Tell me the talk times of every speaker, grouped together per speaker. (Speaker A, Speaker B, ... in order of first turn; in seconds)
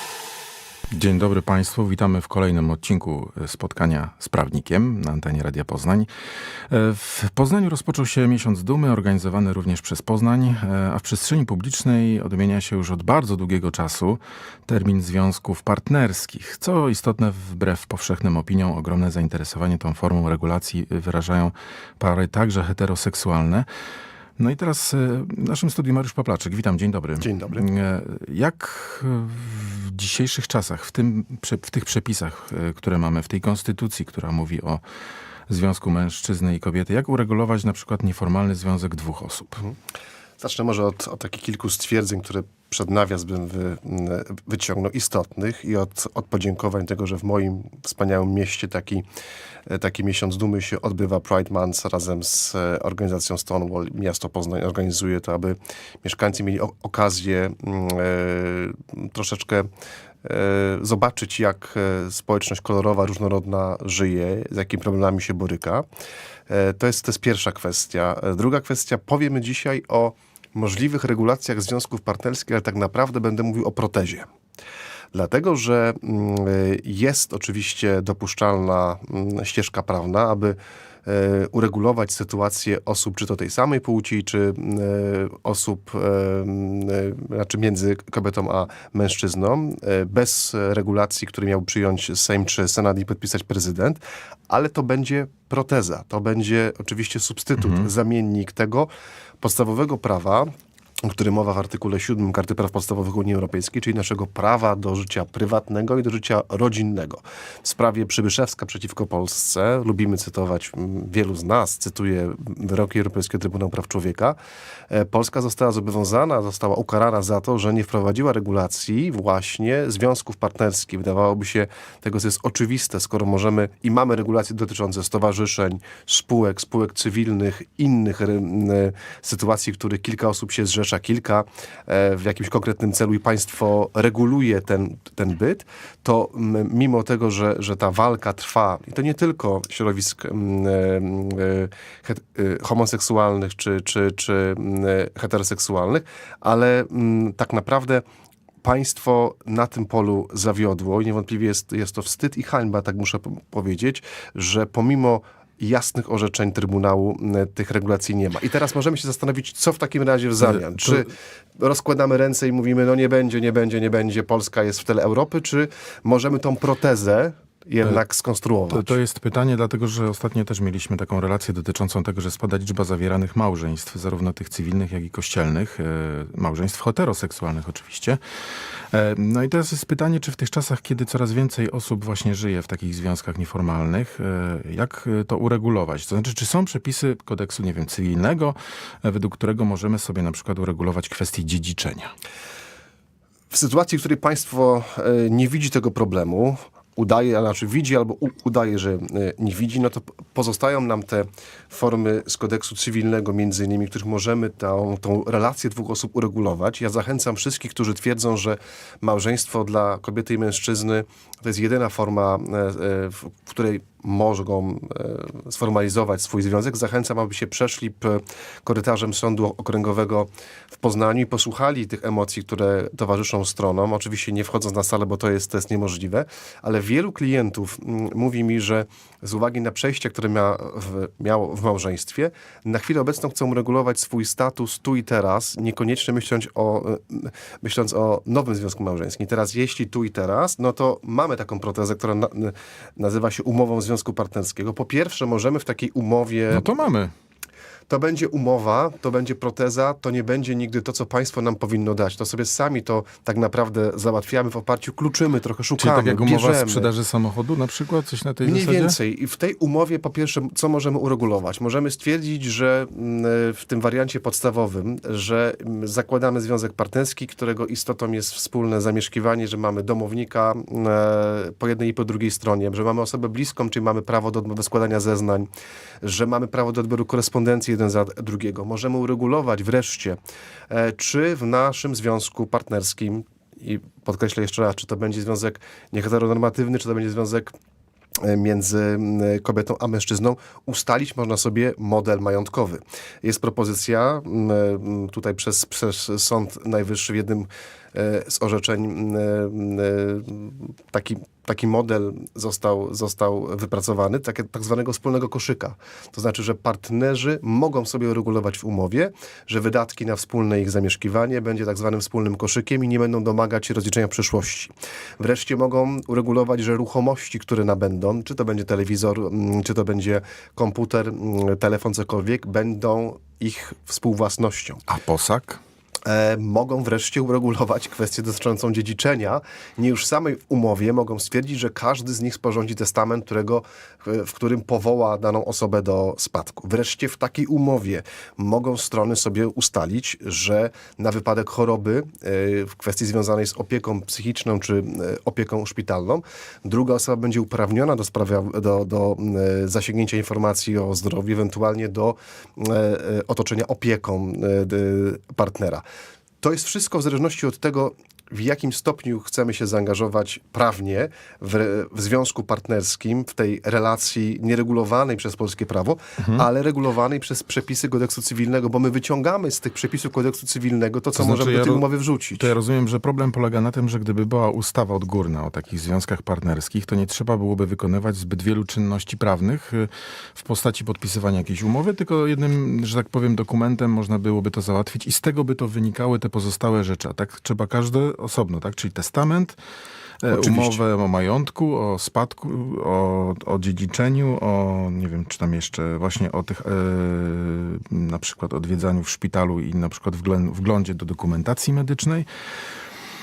Speaker A: 0.9-6.1, 6.7-23.6, 24.4-34.8, 35.5-39.6, 97.6-97.9, 160.4-161.1, 168.7-178.2, 178.9-192.1, 246.5-247.1, 255.8-258.9, 324.9-325.6, 366.2-366.4, 371.1-389.6, 390.2-402.2
Speaker B: 27.2-27.7, 40.4-49.0, 49.7-59.7, 60.2-65.8, 66.5-74.3, 75.1-98.9, 99.4-100.5, 101.1-114.4, 114.9-148.0, 148.6-169.0, 193.5-246.7, 247.9-256.9, 258.4-275.5, 276.0-280.2, 280.7-287.5, 288.2-324.8, 326.1-355.8, 356.4-372.5, 390.3-390.8